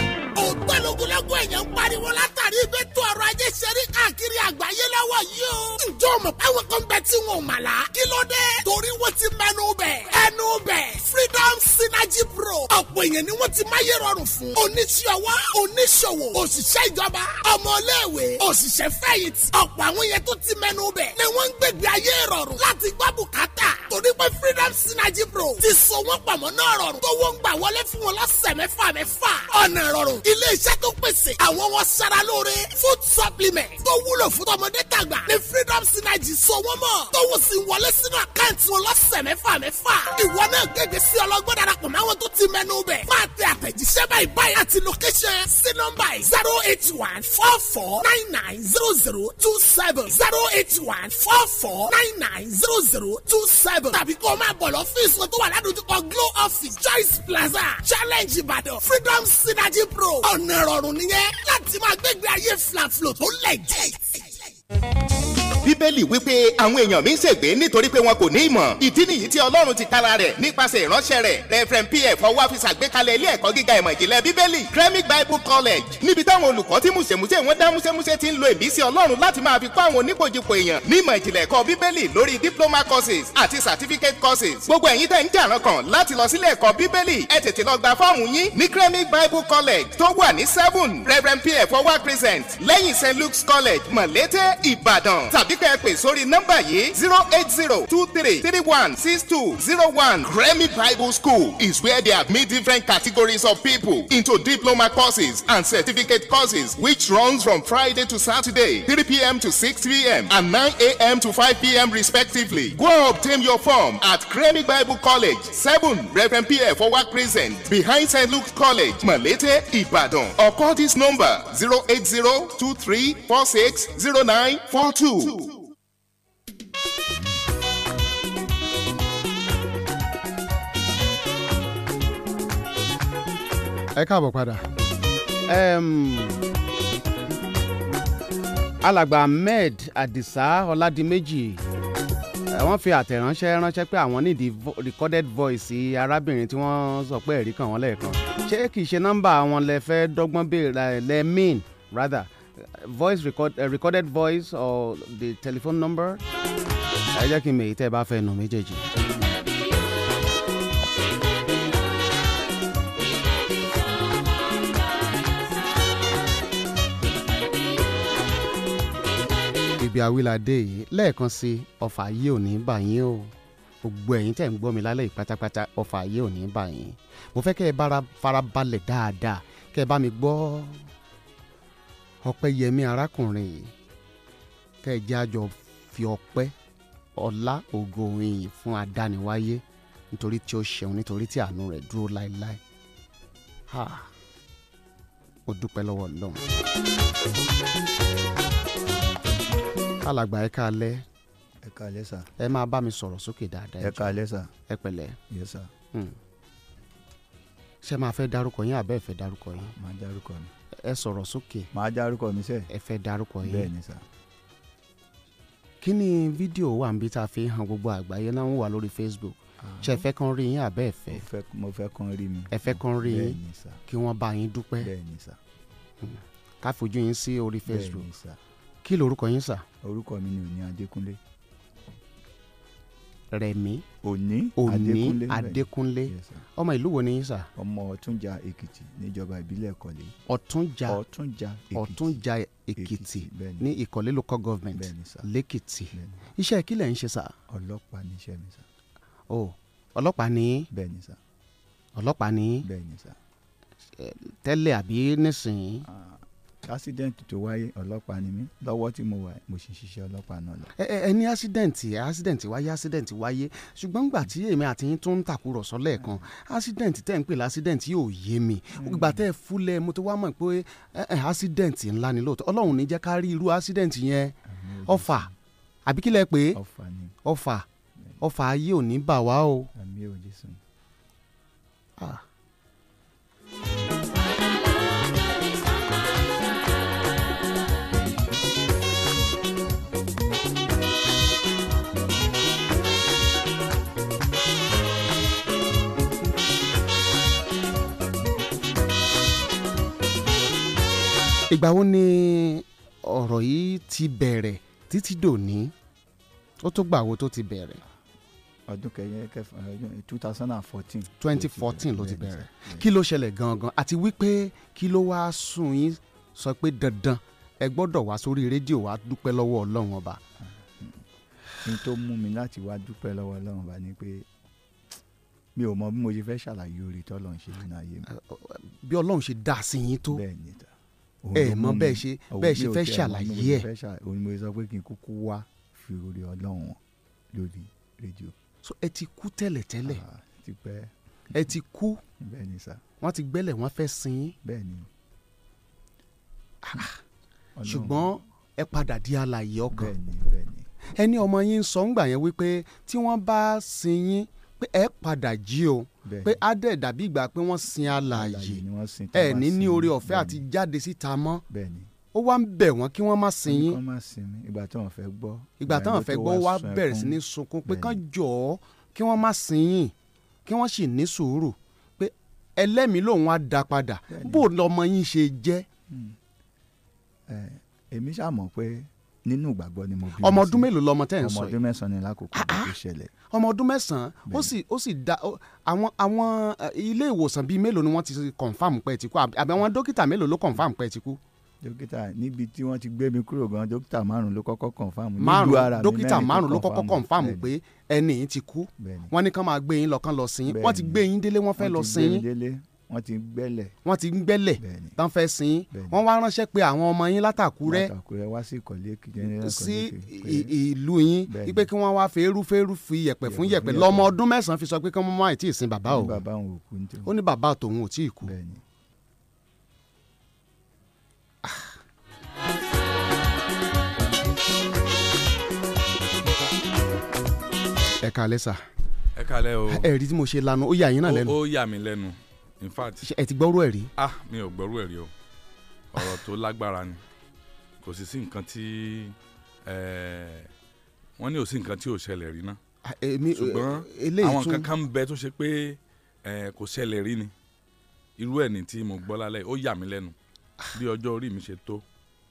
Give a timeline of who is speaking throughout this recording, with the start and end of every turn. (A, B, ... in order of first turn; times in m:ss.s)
0:00.4-1:04.2 A
1:05.6-2:05.6 B
2:14.0-2:14.6 C
2:15.5-2:16.4 C
2:18.8-2:21.6 C
2:22.5-2:36.2 C
2:37.1-2:38.8 C
2:49.8-3:00.8 C
3:02.2-3:03.7 C
3:04.8-3:06.5 C
3:07.2-3:12.6 C
3:13.7-3:14.1 C
3:15.5-3:16.4 C
3:20.0-3:21.0 C
3:21.6-3:22.3 D
3:22.4-3:24.2 C
3:23.8-3:24.5 D
3:24.7-3:25.2 C
3:25.3-3:25.7 D
3:27.8-3:29.7 C
3:29.6-3:30.5 D
3:30.8-3:31.7 C
3:31.7-3:32.7 D
3:32.7-3:33.7 C
3:33.4-3:34.0 D
3:35.8-3:41.2 C
3:39.6-3:40.0 D
3:41.1-3:43.8 D
3:42.5-3:44.9 C
3:44.8-3:45.4 D
3:46.0-3:48.1 C
3:47.7-3:48.4 D
3:48.8-3:49.6 C
3:49.8-3:51.2 D
3:53.3-3:53.8 C
3:54.0-3:56.4 D
3:54.6-3:57.5 C
3:57.6-4:00.1 D
4:00.3-4:01.0 C
4:00.9-4:02.2 D
4:01.7-4:07.3 C
4:02.8-4:03.7 D
4:04.7-4:05.3 D
4:05.9-4:06.3 D
4:07.5-4:08.6 D
4:09.3-4:10.7 C
4:10.7-4:11.2 D
4:11.9-4:12.7 C
4:12.6-4:13.2 D
4:14.0-4:15.9 C
4:15.8-4:20.7 D
4:20.8-4:35.3 C
4:28.8-4:29.2 D
4:34.5-4:35.3 D
4:35.8-4:36.6 C
4:36.5-4:37.2 D
4:37.2-4:37.6 C
4:38.2-4:39.7 C
4:39.7-4:40.6 D
4:42.0-4:42.2 C
5:01.5-5:05.7 C
5:06.6-5:07.8 C
5:08.7-5:12.8 D
5:11.2-5:20.2 C
5:20.4-5:21.0 D
5:21.6-5:24.2 D
5:25.5-5:28.1 D
5:28.1-5:30.2 C
5:30.1-5:30.7 D
5:31.2-5:36.8 D
5:31.3-5:33.7 C
5:37.3-5:38.3 D
5:38.6-5:40.0 C
5:39.8-5:41.4 D
5:41.3-5:42.0 C
5:42.2-5:42.8 D
5:43.0-5:44.3 C
5:44.4-5:44.9 D
5:46.6-5:47.0 C
5:47.6-5:48.2 D
5:47.6-5:49.9 C
5:49.7-5:50.7 D
5:50.9-6:01.4 C
5:56.0-5:56.4 D
5:58.0-6:00.4 D
6:01.5-6:01.9 D
6:02.1-6:03.8 C
6:03.5-6:08.0 D
6:05.6-6:09.9 C
6:10.4-6:15.6 C
6:14.1-6:14.5 D
6:15.9-6:16.1 D
6:17.3-6:23.1 D
6:20.2-6:21.6 C
6:22.3-6:22.7 C
6:23.3-6:31.2 C
6:24.3-6:24.5 D
6:31.6-6:37.5 D
6:35.2-6:42.2 C
6:38.8-6:39.1 D
6:40.5-6:41.0 D
6:41.6-6:43.8 D
6:43.8-6:47.9 C
6:44.6-6:45.0 D
6:45.7-6:46.0 D
6:47.6-6:50.5 D
6:49.2-6:56.2 C
6:51.3-6:51.7 D
6:53.2-6:54.1 D
6:55.9-6:57.1 D
6:57.0-6:58.3 C
6:58.2-6:58.6 D
7:01.4-7:01.7 C
7:08.0-7:08.6 C
7:09.2-7:09.9 E
7:09.7-7:11.4 C
7:11.0-7:13.0 E
7:13.0-7:13.9 C
7:14.0-7:15.1 E
7:15.9-7:17.0 E
7:17.8-7:19.1 E
7:19.6-7:20.5 E
7:21.2-7:22.6 E
7:22.8-7:24.7 C
7:23.3-7:27.3 E
7:28.2-7:30.1 E
7:30.7-7:31.8 E